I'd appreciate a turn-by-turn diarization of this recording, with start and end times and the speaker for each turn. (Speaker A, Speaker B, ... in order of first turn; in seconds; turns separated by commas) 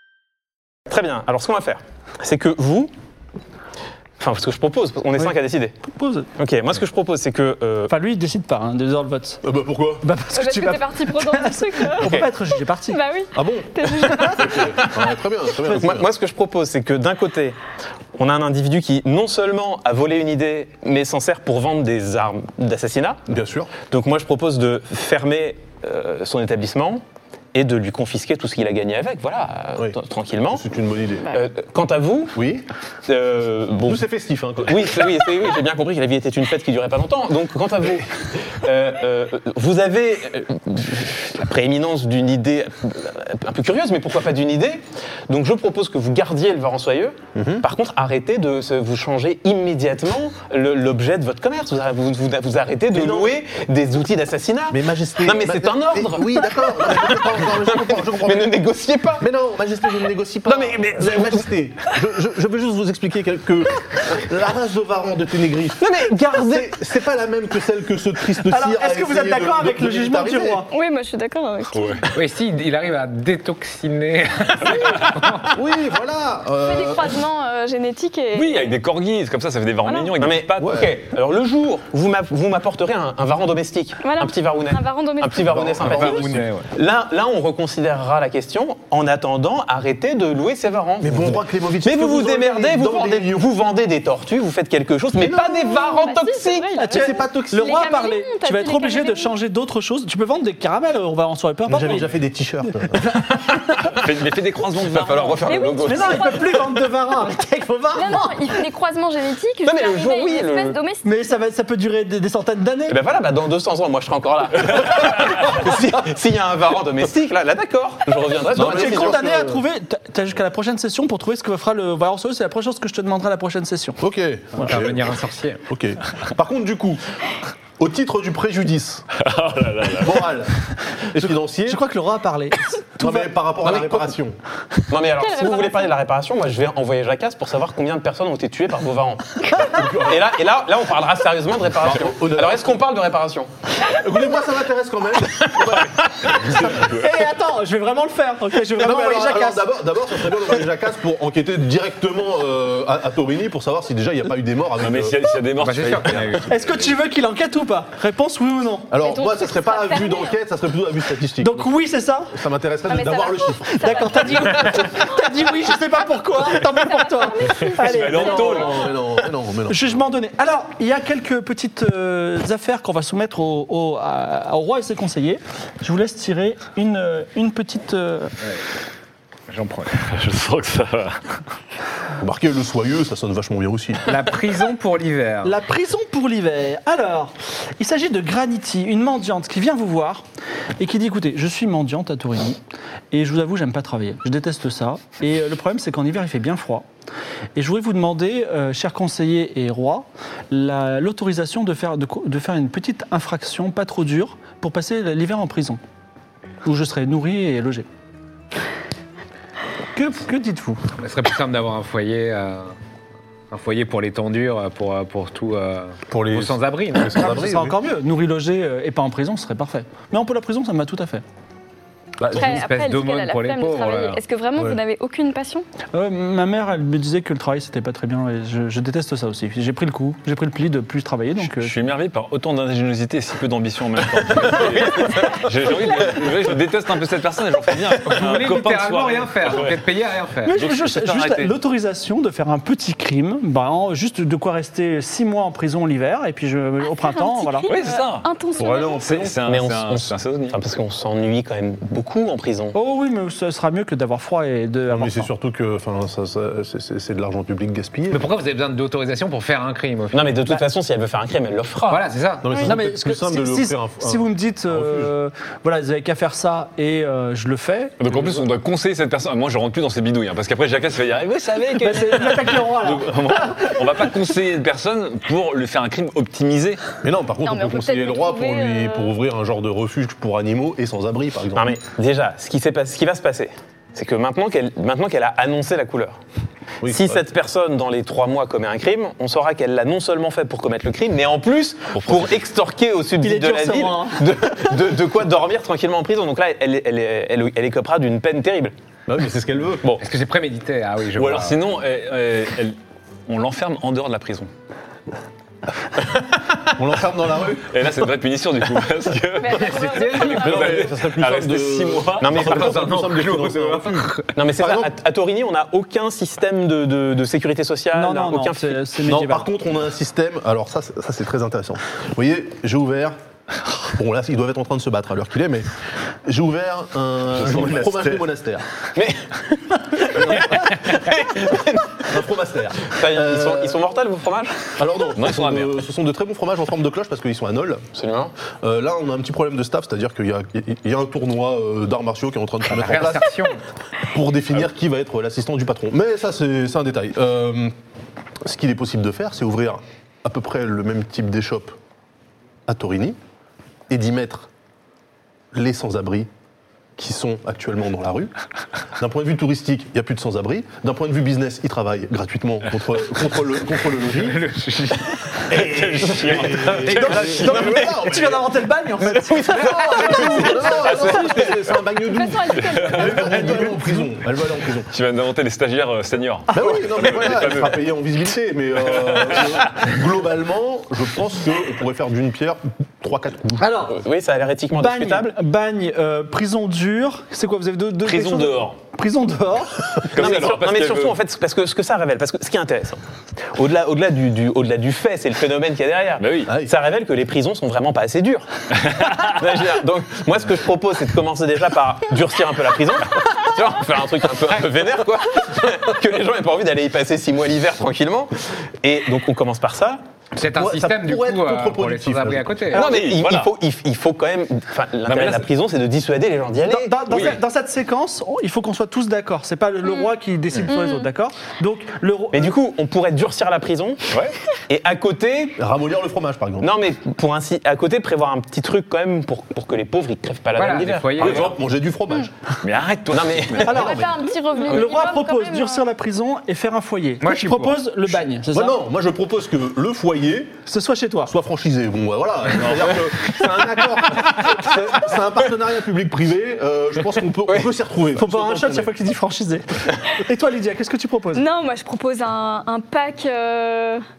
Speaker A: 0.9-2.9, Speaker A: 4.2-5.7, Speaker B: 5.9-6.3, Speaker A: 6.4-7.9, Speaker B: 7.9-9.4, Speaker C: 9.4-10.1, Speaker B: 10.0-13.0, Speaker D: 10.3-12.2, Speaker D: 12.9-14.7, Speaker C: 13.3-16.1, Speaker B: 14.1-14.5, Speaker A: 14.8-15.1, Speaker A: 15.6-17.6, Speaker A: 18.2-23.2, Speaker C: 23.3-23.7, Speaker A: 23.9-27.0, Speaker A: 27.5-30.6, Speaker C: 30.5-31.4, Speaker A: 31.3-32.4, Speaker C: 32.3-32.7, Speaker A: 33.1-34.0, Speaker C: 33.8-35.4, Speaker A: 34.6-59.3, Speaker C: 47.3-47.6, Speaker C: 52.9-53.4, Speaker C: 54.7-58.6, Speaker C: 59.2-70.6, Speaker A: 60.5-61.5, Speaker A: 65.8-67.0, Speaker B: 68.4-70.7, Speaker D: 70.7-72.0, Speaker E: 71.7-72.0, Speaker F: 72.1-75.6, Speaker E: 74.8-75.2, Speaker C: 75.5-77.2, Speaker D: 76.6-78.7, Speaker E: 78.3-80.9, Speaker D: 79.8-80.2, Speaker A: 80.2-96.7, Speaker C: 80.6-80.9, Speaker D: 84.0-86.2, Speaker C: 85.4-86.5, Speaker F: 85.8-86.7, Speaker C: 91.0-93.5, Speaker C: 95.1-95.6, Speaker D: 95.2-99.3, Speaker B: 96.8-102.1, Speaker C: 101.7-103.0, Speaker B: 102.7-103.5, Speaker E: 103.9-105.4, Speaker A: 104.8-106.2, Speaker D: 105.4-107.0, Speaker B: 105.8-108.4, Speaker D: 107.9-111.0, Speaker A: 109.6-110.8, Speaker B: 111.0-113.0, Speaker A: 112.9-119.3, Speaker C: 115.5-115.9, Speaker C: 118.5-119.6, Speaker B: 118.6-124.0, Speaker C: 124.0-127.0, Speaker F: 124.6-125.6, Speaker C: 127.8-129.1, Speaker E: 129.2-130.3, Speaker C: 130.0-130.5, Speaker C: 131.1-131.8, Speaker B: 131.2-133.3, Speaker C: 133.0-134.4, Speaker A: 133.6-134.1, Speaker A: 134.9-143.5, Speaker D: 135.2-135.9, Speaker C: 139.6-140.3, Speaker C: 141.7-142.8, Speaker C: 143.9-146.7, Speaker A: 145.4-146.4, Speaker E: 146.2-147.2, Speaker B: 146.8-149.7, Speaker C: 148.8-155.3, Speaker E: 154.8-157.0, Speaker F: 155.6-156.5, Speaker B: 156.5-158.9, Speaker C: 158.9-161.8, Speaker D: 159.0-160.4, Speaker B: 161.4-162.3, Speaker C: 162.3-164.5, Speaker D: 162.9-165.8, Speaker B: 163.8-168.7, Speaker D: 166.4-168.9, Speaker E: 167.7-168.9, Speaker C: 168.1-170.0, Speaker B: 169.7-178.3, Speaker F: 179.5-179.9, Speaker E: 179.9-181.4, Speaker C: 182.2-184.1, Speaker F: 184.1-185.5, Speaker B: 185.4-190.2, Speaker B: 190.8-192.6, Speaker B: 193.1-196.9, Speaker B: 197.6-205.8, Speaker B: 206.6-207.8, Speaker B: 209.9-210.8, Speaker F: 211.0-212.7, Speaker F: 213.5-217.5, Speaker C: 216.1-217.8, Speaker B: 217.2-221.2, Speaker C: 222.2-222.6, Speaker F: 222.3-224.2, Speaker D: 222.3-225.7, Speaker B: 225.9-231.7, Speaker E: 231.4-239.8, Speaker F: 238.1-240.5, Speaker B: 238.2-239.6, Speaker B: 240.4-247.7, Speaker E: 240.5-241.5, Speaker D: 246.8-249.1, Speaker E: 247.7-248.3, Speaker C: 248.6-249.4, Speaker E: 249.0-250.6, Speaker A: 249.4-252.7, Speaker B: 252.7-255.3, Speaker C: 254.9-258.2, Speaker F: 258.1-260.4, Speaker A: 260.1-262.1, Speaker F: 261.9-262.5, Speaker C: 262.4-265.1, Speaker B: 262.6-267.9, Speaker E: 268.0-276.8, Speaker B: 271.8-273.8, Speaker C: 277.0-281.8, Speaker D: 277.4-279.1, Speaker A: 281.5-286.2, Speaker C: 286.8-287.2, Speaker A: 286.8-298.7, Speaker E: 291.9-292.4, Speaker B: 293.2-294.3, Speaker C: 299.1-300.0, Speaker F: 300.0-301.6, Speaker E: 301.1-304.5, Speaker C: 306.7-308.1, Speaker E: 307.7-312.6, Speaker D: 309.4-310.9, Speaker F: 309.6-310.6, Speaker C: 310.2-314.9, Speaker A: 312.2-313.0, Speaker F: 312.4-314.3, Speaker A: 314.3-319.1, Speaker B: 317.9-319.5, Speaker C: 319.0-323.2, Speaker C: 323.8-325.7, Speaker C: 326.2-328.6, Speaker E: 327.3-328.2, Speaker A: 328.9-332.2, Speaker C: 332.0-333.8, Speaker A: 332.9-334.8, Speaker C: 334.8-337.8, Speaker E: 335.1-335.8, Speaker A: 337.9-338.3, Speaker C: 338.6-343.3, Speaker F: 342.7-343.6, Speaker C: 344.1-347.7, Speaker C: 348.4-351.8, Speaker C: 352.7-353.2, Speaker C: 353.9-354.5, Speaker C: 355.5-356.3, Speaker C: 357.0-358.3, Speaker C: 359.0-364.4, Speaker F: 364.1-365.5, Speaker E: 365.5-367.8, Speaker C: 365.5-368.6, Speaker B: 366.9-371.4, Speaker A: 369.3-370.7, Speaker C: 369.7-374.9, Speaker E: 370.8-371.8, Speaker D: 372.1-373.7, Speaker E: 372.5-373.6, Speaker B: 373.0-374.1, Speaker E: 374.9-377.8, Speaker C: 376.5-383.8, Speaker A: 376.5-377.6, Speaker E: 378.9-379.8, Speaker B: 383.6-384.0, Speaker A: 383.9-385.4, Speaker B: 384.8-389.9, Speaker E: 388.0-388.8, Speaker E: 390.0-391.2, Speaker A: 390.1-398.5, Speaker E: 396.2-396.5, Speaker C: 396.4-396.7, Speaker E: 398.7-399.4, Speaker A: 399.1-410.0, Speaker F: 410.4-413.0, Speaker C: 410.4-412.7, Speaker A: 412.7-417.3, Speaker E: 412.7-413.5, Speaker E: 415.1-415.5, Speaker B: 416.7-422.5, Speaker E: 417.1-417.4, Speaker D: 419.8-420.1, Speaker D: 420.7-421.1, Speaker A: 422.3-424.1, Speaker A: 424.7-425.6, Speaker C: 425.6-426.7, Speaker A: 426.6-431.5, Speaker F: 430.5-431.4, Speaker C: 431.2-432.3, Speaker E: 431.2-431.6, Speaker E: 432.6-434.1, Speaker A: 433.1-433.8, Speaker D: 433.6-435.8, Speaker B: 433.6-434.1, Speaker B: 434.7-438.8, Speaker F: 437.2-437.8, Speaker C: 438.4-440.6, Speaker B: 440.6-441.3, Speaker C: 441.3-448.9, Speaker E: 442.6-443.0, Speaker A: 443.6-445.0, Speaker B: 448.1-451.4, Speaker D: 451.3-454.0